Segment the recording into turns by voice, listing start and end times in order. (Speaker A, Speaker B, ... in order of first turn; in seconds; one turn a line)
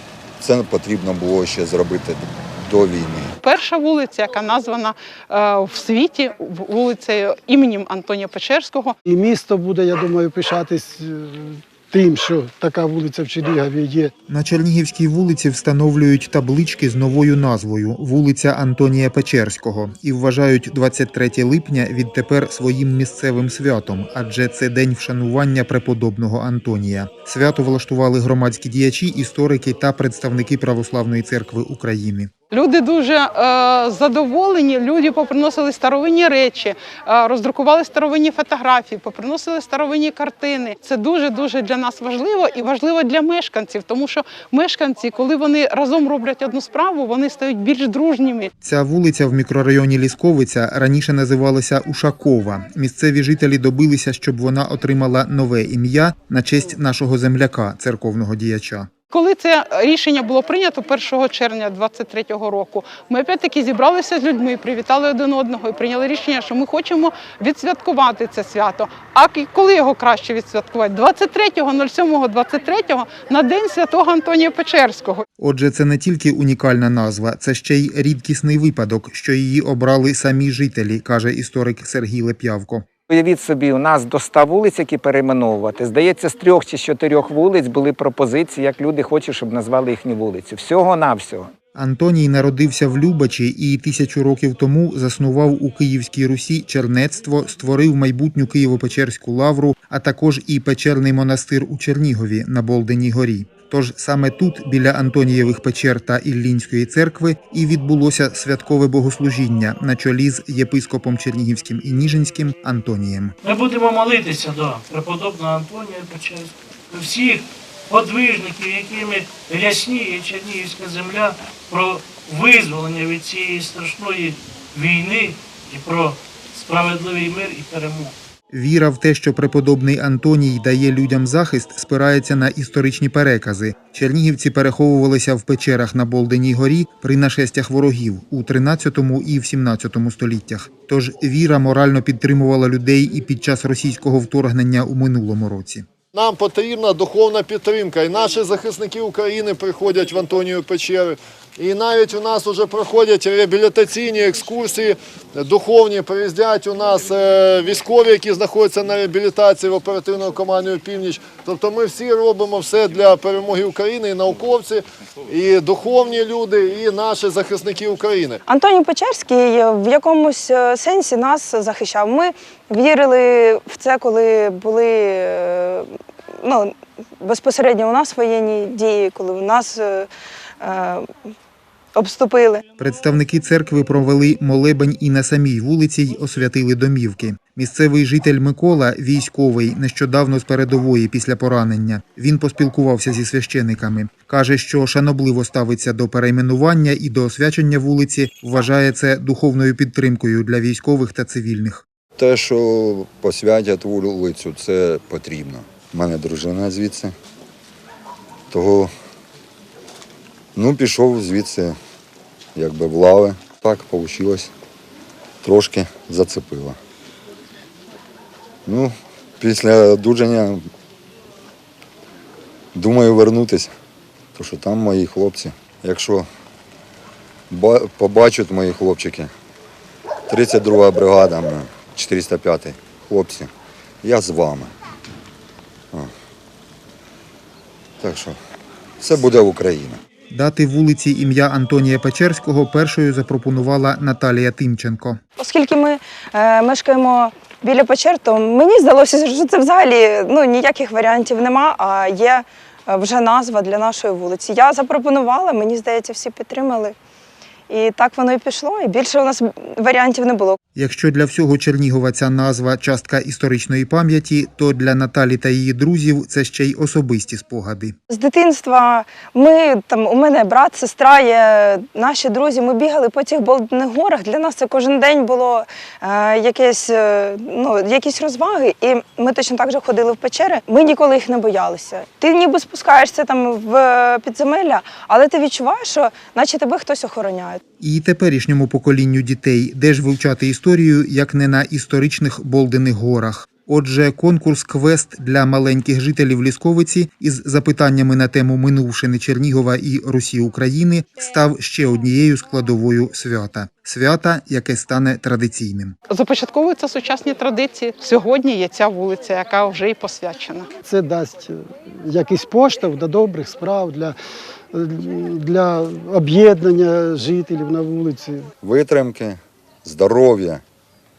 Speaker A: 0.4-3.3
Speaker B: 3.4-8.9
Speaker C: 9.1-14.1
Speaker D: 14.3-32.3
Speaker B: 32.5-48.5
Speaker D: 48.6-58.9
Speaker B: 59.1-75.2
Speaker D: 75.4-82.9
Speaker E: 83.1-91.5
Speaker D: 91.7-113.3
Speaker F: 113.5-128.1
Speaker D: 128.5-145.8
Speaker G: 146.1-168.4
Speaker H: 168.4-175.9
Speaker H: 176.4-180.1
Speaker H: 180.6-181.1
Speaker H: 181.9-182.6
Speaker D: 182.8-201.8
Speaker A: 202.2-207.1
Speaker A: 208.5-208.9
Speaker A: 210.5-211.8
Speaker A: 212.5-214.5
Speaker A: 215.4-216.8
Speaker A: 218.7-220.7
Speaker A: 222.7-223.7
Speaker A: 224.3-226.3
Speaker A: 227.5-229.3
Speaker A: 230.3-233.5
Speaker A: 234.0-234.7
Speaker A: 238.0-238.4
Speaker A: 239.0-240.0
Speaker D: 240.3-245.2
Speaker H: 245.4-256.9
Speaker H: 257.7-260.6
Speaker D: 260.7-267.9
Speaker H: 268.1-287.6
Speaker D: 287.8-305.9
Speaker B: 306.1-310.7
Speaker C: 310.8-314.1
Speaker C: 314.7-318.4
Speaker A: 318.6-320.6